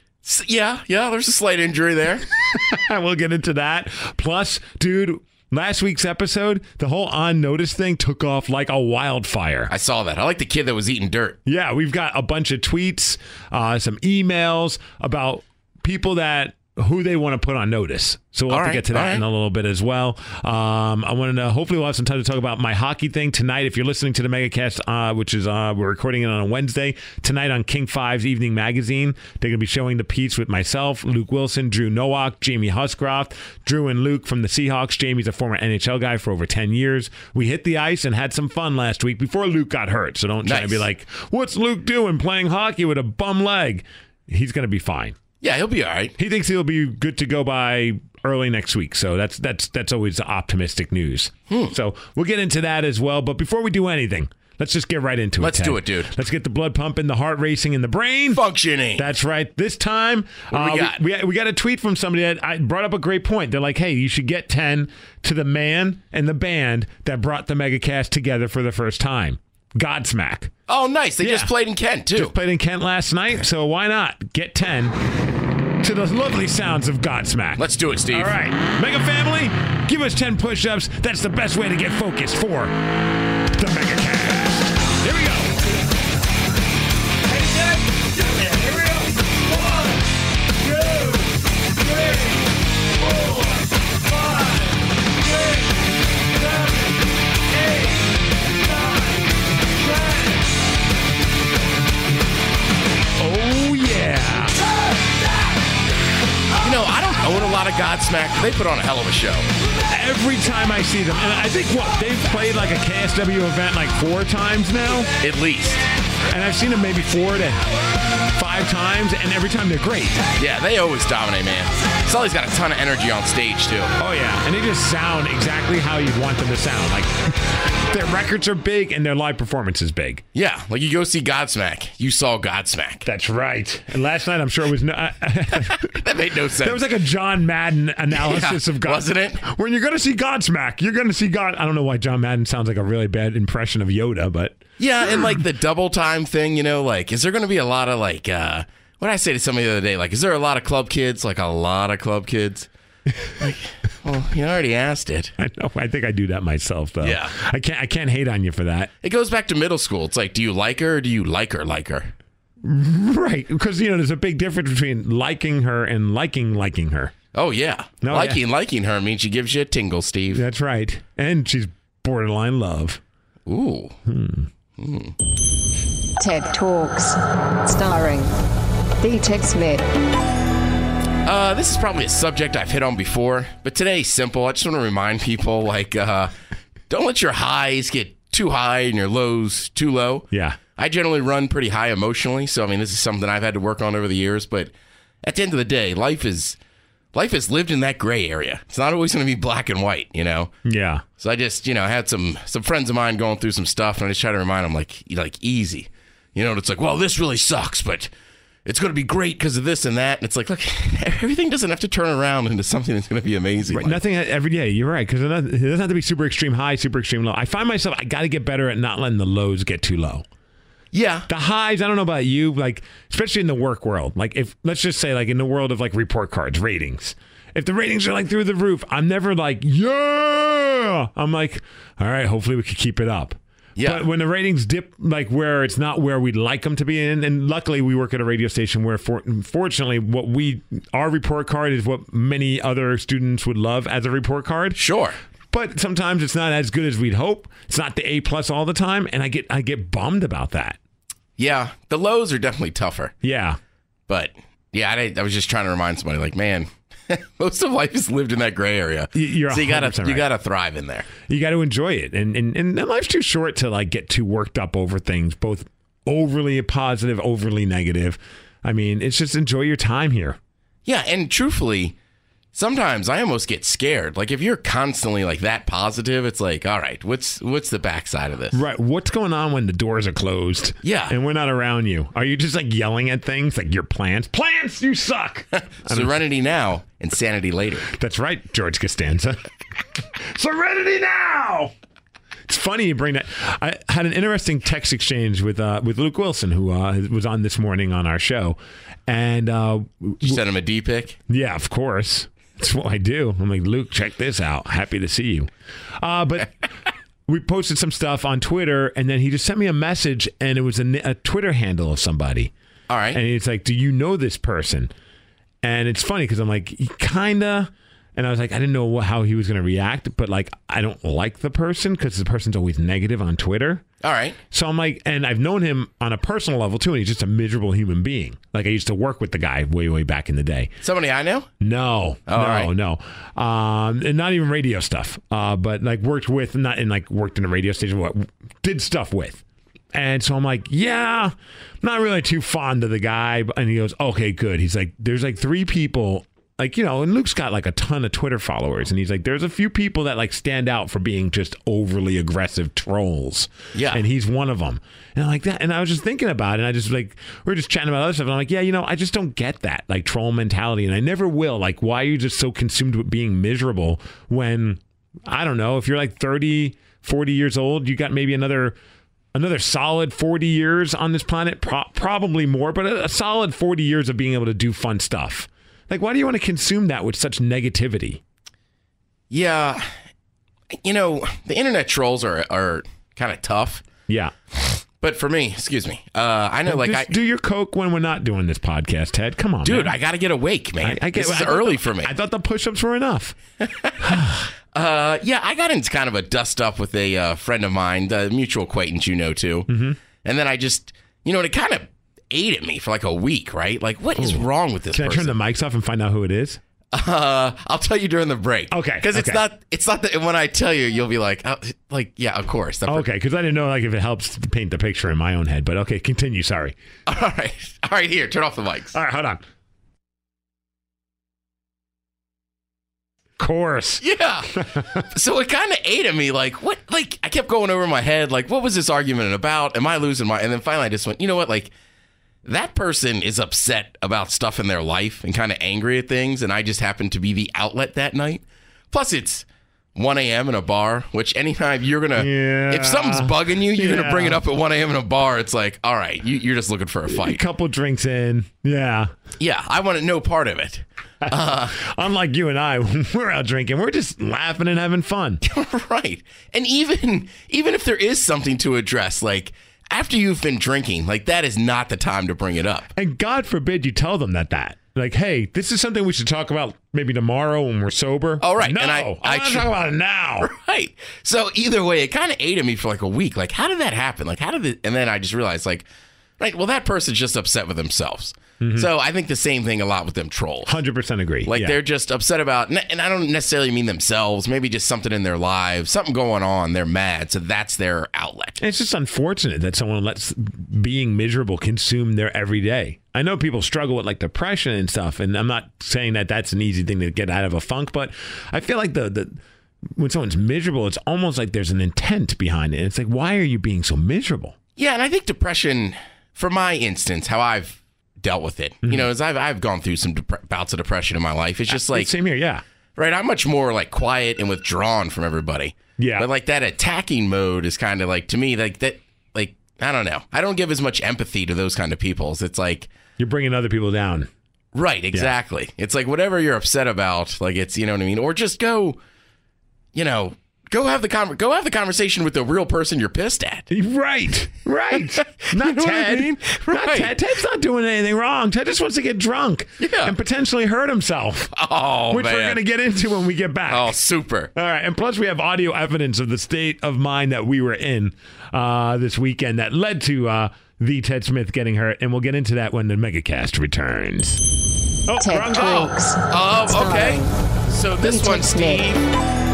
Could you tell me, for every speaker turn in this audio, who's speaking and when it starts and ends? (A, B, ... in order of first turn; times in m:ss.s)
0:00.2-0:02.3 A
0:02.5-0:09.7 B
0:09.7-0:11.4 A
0:11.5-0:45.2 B
0:18.5-0:19.2 A
0:40.4-0:40.8 A
0:45.4-0:46.2 A
0:46.2-0:58.4 B
0:51.5-0:51.8 A
0:55.4-0:56.1 A
0:58.3-0:59.1 A
0:59.0-1:10.5 B
1:00.5-1:01.0 A
1:10.7-1:12.4 A
1:11.2-1:11.5 B
1:12.1-1:15.0 B
1:15.8-1:22.8 B
1:17.6-1:18.3 A
1:23.5-1:25.5 B
1:28.4-1:29.1 B
1:30.6-1:31.3 B
1:31.9-1:32.4 B
1:34.1-1:34.6 B
1:37.6-1:38.0 B
1:38.8-1:39.1 B
1:43.2-1:44.6 B
1:46.6-1:49.5 A
1:49.9-1:55.1 B
1:55.2-1:55.9 A
1:56.3-1:57.7 B
1:58.3-2:00.2 B
2:00.4-2:03.9 A
2:04.0-2:10.2 B
2:10.3-2:13.1 A
2:13.1-2:15.9 B
2:15.5-2:16.8 A
2:16.6-2:24.6 B
2:18.1-2:19.4 A
2:24.8-2:32.7 A
2:33.4-2:35.3 A
2:35.4-2:38.9 B
2:37.0-2:37.3 A
2:39.0-2:42.1 A
2:42.6-2:47.2 B
2:47.3-2:50.4 A
2:48.0-2:48.4 B
2:50.3-2:53.0 B
2:53.5-2:54.0 A
2:54.1-2:54.5 B
2:54.8-2:55.2 A
2:56.2-2:58.3 C
2:59.0-2:59.9 C
3:01.2-3:06.3 A
3:06.9-3:14.7 A
3:10.3-3:10.6 B
3:15.2-3:16.6 A
3:17.1-3:20.5 A
3:20.6-3:21.0 B
3:21.2-3:28.1 A
3:28.6-3:34.0 A
3:33.7-3:40.2 B
3:40.9-3:41.3 A
3:41.3-4:04.8 B
3:53.8-3:54.1 A
4:04.8-4:05.2 A
4:05.5-4:10.8 B
4:11.4-4:13.1 A
4:13.2-4:13.6 B
4:14.1-4:21.1 A
4:19.1-4:20.3 B
4:21.3-4:30.4 B
4:30.9-4:32.0 A
4:32.5-4:38.6 A
4:38.5-4:46.1 B
4:40.8-4:41.1 A
4:45.5-4:47.9 A
4:47.9-4:49.4 B
4:50.2-4:51.7 B
4:52.5-5:00.4 B
5:00.2-5:01.2 A
5:01.3-5:05.5 B
5:06.0-5:06.5 B
5:07.3-5:12.5 B
5:12.9-5:13.2 A
5:13.1-5:14.9 B
5:15.6-5:23.8 B
5:24.0-5:24.4 A
5:24.5-5:30.7 B
5:30.8-5:31.5 A
5:31.6-6:08.8 B
5:32.3-5:32.7 A
5:53.7-5:54.0 A
6:09.3-6:18.2 B
6:19.3-6:19.9 A
6:20.7-6:23.8 A
6:24.1-6:24.3 B
6:25.0-6:27.2 A
6:26.7-6:30.0 B
6:29.6-6:32.1 A
6:30.8-6:33.4 B
6:33.6-6:34.2 A
6:34.0-6:34.5 B
6:34.7-6:39.7 A
6:39.7-6:40.0 B
6:40.2-6:45.4 A
6:44.2-6:46.6 B
6:46.9-6:53.1 A
6:48.7-6:49.4 B
6:52.9-6:56.8 B
6:57.1-6:59.0 A
6:58.9-6:59.4 B
7:03.4-7:04.0 B
7:04.0-7:04.5 A
7:04.6-7:05.0 B
7:05.1-7:11.7 A
7:12.4-7:27.4 A
7:22.2-7:24.4 B
7:27.1-7:29.1 B
7:29.4-7:31.8 A
7:31.2-7:35.4 B
7:35.4-7:42.9 A
7:43.0-7:50.5 B
7:48.4-7:49.7 A
7:50.4-7:55.9 A
7:56.4-8:00.8 A
7:58.6-7:58.9 B
8:00.7-8:01.8 B
8:01.5-8:08.6 A
8:08.6-8:19.4 B
8:20.0-8:24.6 B
8:24.8-8:32.1 A
8:31.7-8:32.6 B
8:33.0-8:42.9 A
8:36.0-8:36.3 B
8:43.2-8:44.3 B
8:44.7-8:49.0 A
8:49.9-8:53.7 A
8:53.7-9:01.5 B
8:55.1-8:57.2 A
8:59.8-9:00.2 A
9:01.5-9:02.6 A
9:02.1-9:04.0 B
9:03.7-9:04.5 A
9:04.5-9:14.4 B
9:15.1-9:15.9 B
9:15.2-9:17.3 C
9:16.3-9:19.0 A
9:18.0-9:18.9 C